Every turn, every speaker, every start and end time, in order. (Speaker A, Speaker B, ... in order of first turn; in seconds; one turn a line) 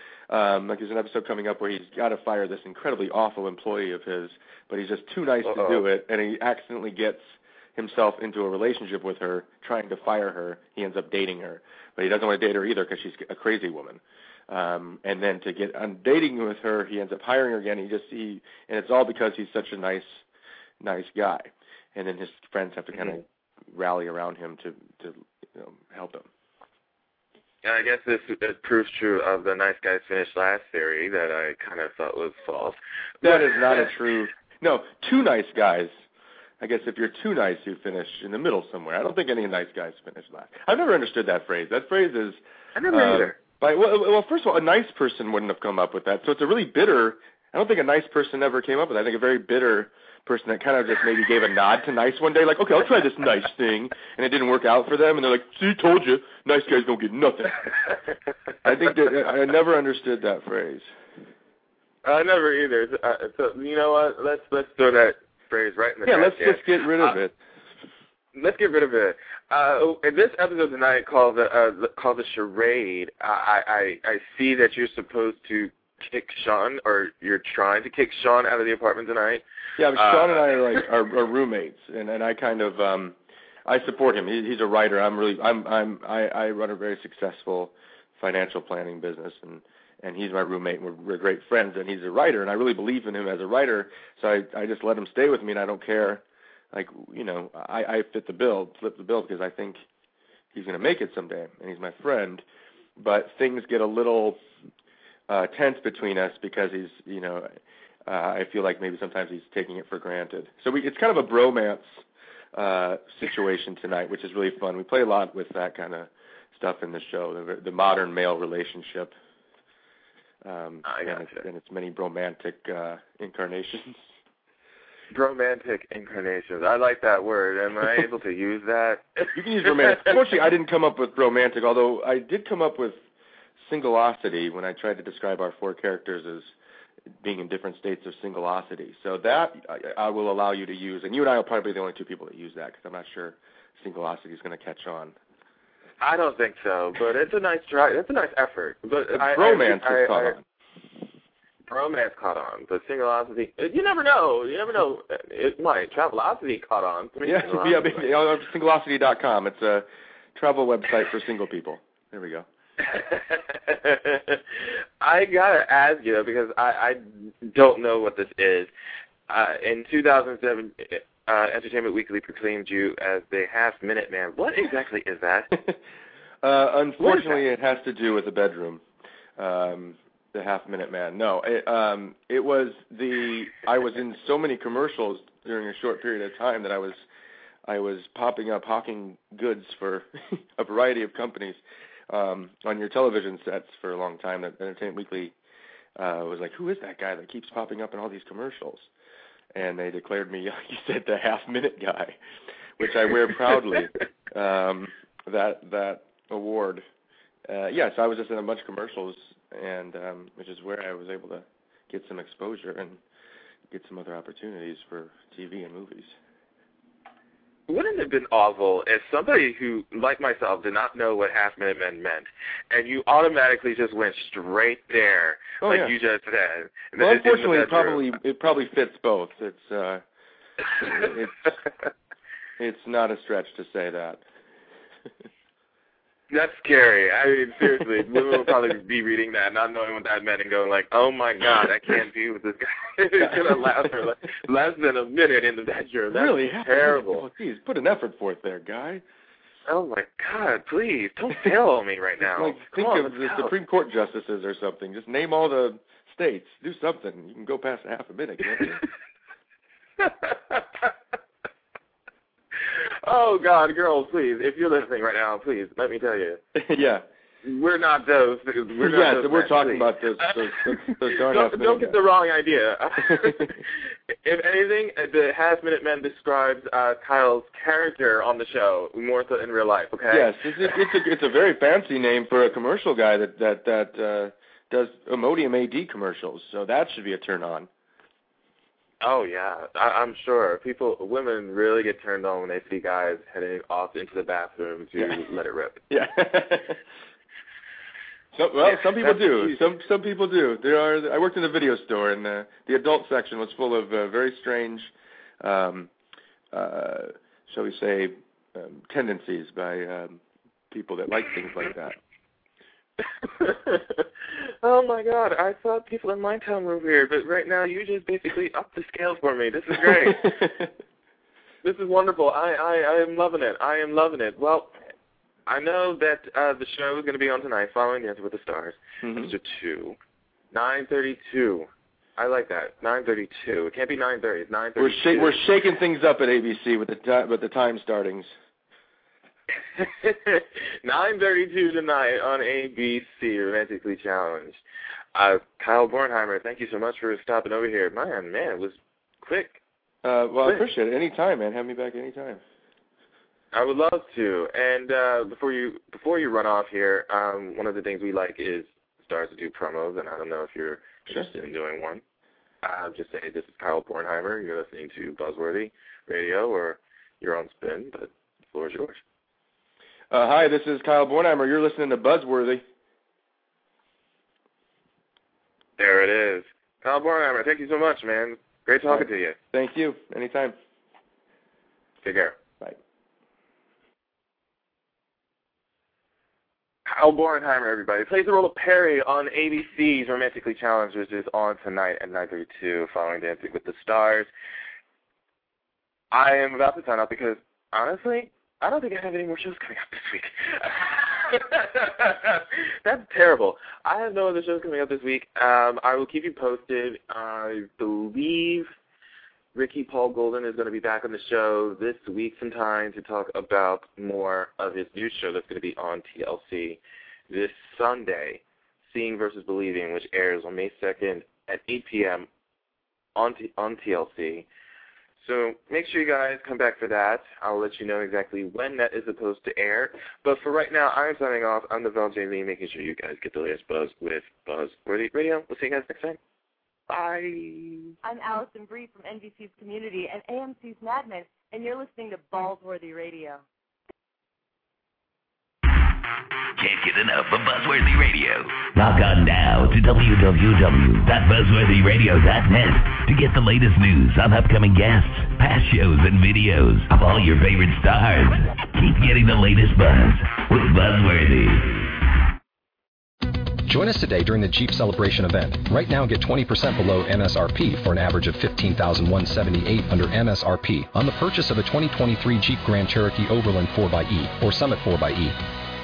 Speaker A: 0.3-20.2
Speaker B: 5.4-5.8
Speaker A: 20.8-26.3
Speaker B: 27.6-33.8
Speaker A: 33.2-35.9
Speaker A: 36.6-42.4
Speaker B: 42.8-43.4
Speaker A: 42.9-57.7
Speaker A: 58.6-60.9
Speaker B: 62.0-67.2
Speaker A: 66.0-67.3
Speaker B: 68.3-79.4
Speaker A: 79.8-83.2
Speaker B: 80.0-80.4
Speaker A: 83.7-99.8
Speaker A: 100.5-102.4
Speaker A: 103.0-104.4
Speaker A: 105.3-107.5
Speaker A: 108.1-112.0
Speaker A: 112.5-119.1
Speaker A: 120.4-124.0
Speaker B: 120.8-121.4
Speaker B: 125.1-130.2
Speaker A: 129.3-133.0
Speaker A: 133.6-136.5
Speaker A: 137.2-145.2
Speaker B: 146.0-150.3
Speaker A: 149.1-150.4
Speaker B: 151.7-158.1
Speaker A: 157.2-162.5
Speaker B: 162.8-164.4
Speaker B: 165.0-168.7
Speaker B: 169.3-175.5
Speaker A: 176.4-178.8
Speaker B: 177.0-177.4
Speaker A: 179.4-187.0
Speaker A: 187.7-195.3
Speaker A: 196.0-198.9
Speaker A: 199.5-202.2
Speaker A: 202.8-206.8
Speaker A: 207.5-213.0
Speaker A: 213.7-216.2
Speaker B: 217.7-228.1
Speaker A: 225.6-225.9
Speaker A: 227.0-230.0
Speaker A: 230.8-231.6
Speaker A: 232.6-234.2
Speaker B: 236.3-247.2
Speaker A: 246.1-249.0
Speaker B: 249.7-253.5
Speaker A: 252.2-258.8
Speaker B: 260.0-260.9
Speaker B: 263.0-266.4
Speaker A: 266.5-267.0
Speaker B: 267.4-270.4
Speaker A: 268.8-272.0
Speaker B: 271.3-273.6
Speaker B: 274.2-280.8
Speaker A: 280.1-287.7
Speaker B: 289.0-295.8
Speaker A: 295.9-296.8
Speaker A: 298.4-305.9
Speaker B: 298.6-299.6
Speaker A: 306.5-310.2
Speaker A: 310.7-312.0
Speaker B: 313.2-314.1
Speaker B: 314.6-320.5
Speaker A: 320.0-320.7
Speaker B: 321.6-324.8
Speaker B: 325.5-329.9
Speaker A: 329.0-329.3
Speaker B: 330.5-335.4
Speaker A: 334.8-338.3
Speaker B: 339.8-344.6
Speaker B: 345.1-349.6
Speaker A: 350.0-352.4
Speaker B: 353.5-362.0
Speaker B: 362.6-369.0
Speaker A: 370.1-372.6
Speaker B: 375.8-379.4
Speaker A: 378.9-380.5
Speaker B: 382.0-382.3
Speaker B: 386.9-394.3
Speaker B: 396.1-408.7
Speaker B: 409.5-422.3
Speaker B: 423.1-424.5
Speaker B: 425.2-436.2
Speaker B: 436.9-437.9
Speaker C: 438.0-443.4
Speaker D: 446.6-461.9
Speaker E: 463.6-475.4